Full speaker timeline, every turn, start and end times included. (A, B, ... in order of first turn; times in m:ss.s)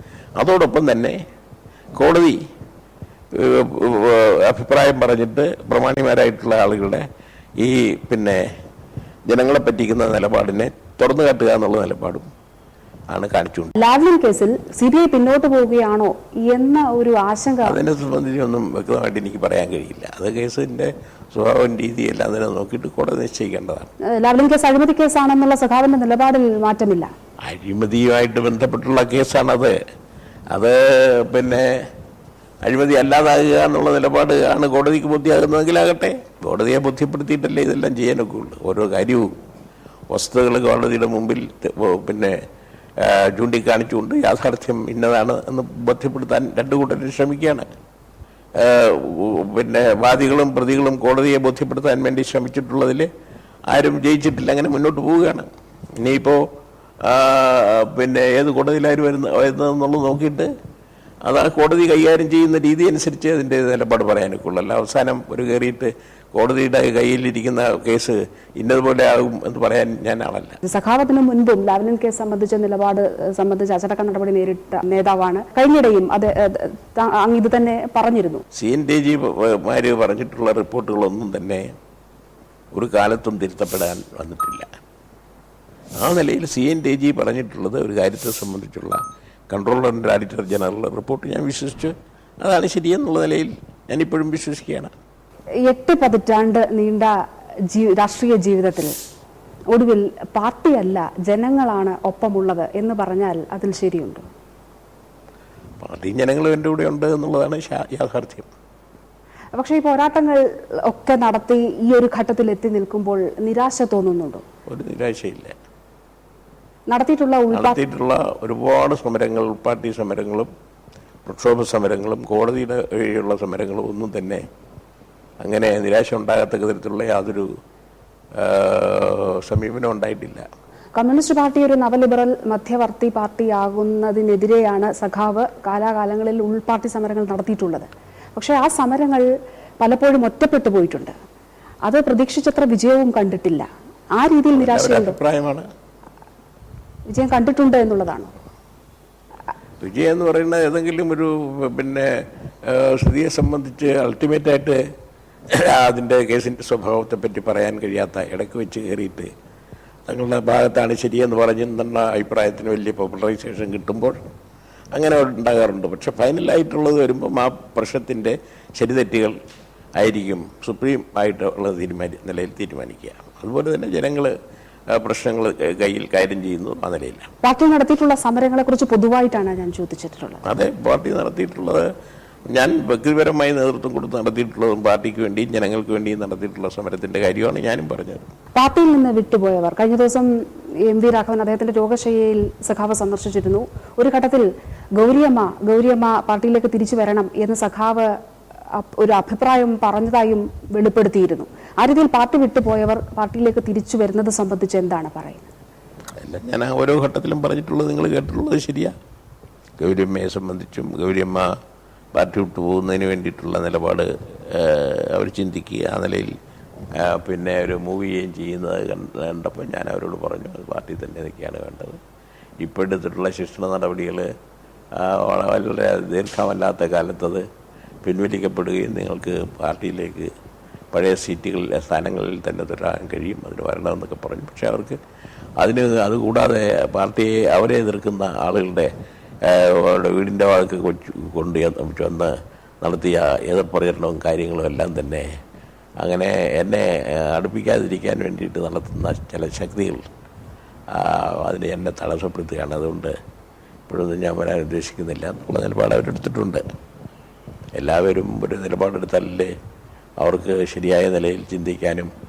0:00.4-0:01.2 A
0:02.0-0:02.4 A
0:03.3-0:07.0 A
0:07.6-0:08.4 A
0:09.3-0:12.2 A
0:13.1-0:13.8 A
0:13.8-0:17.8 B
0:17.6-0:23.9 A
0:24.1-0:27.1 B
0:27.4-0:29.8 A
0:30.5-0:31.9 A
0:32.6-0:39.3 A
0:40.1-0:42.4 A
0:43.0-0:47.7 A
0:48.6-0:53.1 A
0:53.7-0:55.5 A
0:56.0-0:56.4 A
0:57.0-1:00.5 A
1:01.2-1:10.6 A
1:10.6-1:18.4 B
1:18.5-1:21.6 A
1:22.7-1:24.7 A
1:26.0-1:29.0 A
1:29.5-1:34.9 A
1:35.6-1:37.1 B
1:37.7-1:38.9 B
1:39.7-1:44.2 B
1:45.8-1:48.5 A
1:49.5-1:54.4 B
1:54.7-1:55.5 A
1:56.9-1:57.8 B
1:57.5-2:00.5 A
2:01.2-2:04.4 A
2:05.4-2:07.5 A
2:08.4-2:10.4 A
2:11.0-2:19.3 B
2:19.8-2:21.1 B
2:21.8-2:25.2 B
2:24.5-2:25.6 A
2:27.1-2:28.3 B
2:29.8-2:34.8 A
2:35.5-2:39.3 A
2:40.1-2:44.2 A
2:44.9-2:49.3 A
2:50.0-2:54.3 A
2:54.9-2:57.3 A
2:57.4-3:00.4 B
3:00.4-3:01.9 A
3:02.5-3:08.2 A
3:08.6-3:18.1 B
3:18.7-3:25.5 B
3:26.2-3:28.9 A
3:29.8-3:31.6 A
3:32.1-3:36.3 A
3:37.0-3:42.0 A
3:42.6-3:44.3 A
3:44.9-3:47.4 A
3:48.0-3:50.3 A
3:50.9-3:55.0 A
3:55.6-3:58.9 A
3:59.4-4:05.2 A
4:06.0-4:10.1 A
4:10.9-4:13.1 A
4:13.9-4:16.6 A
4:17.8-4:19.5 A
4:20.2-4:22.1 A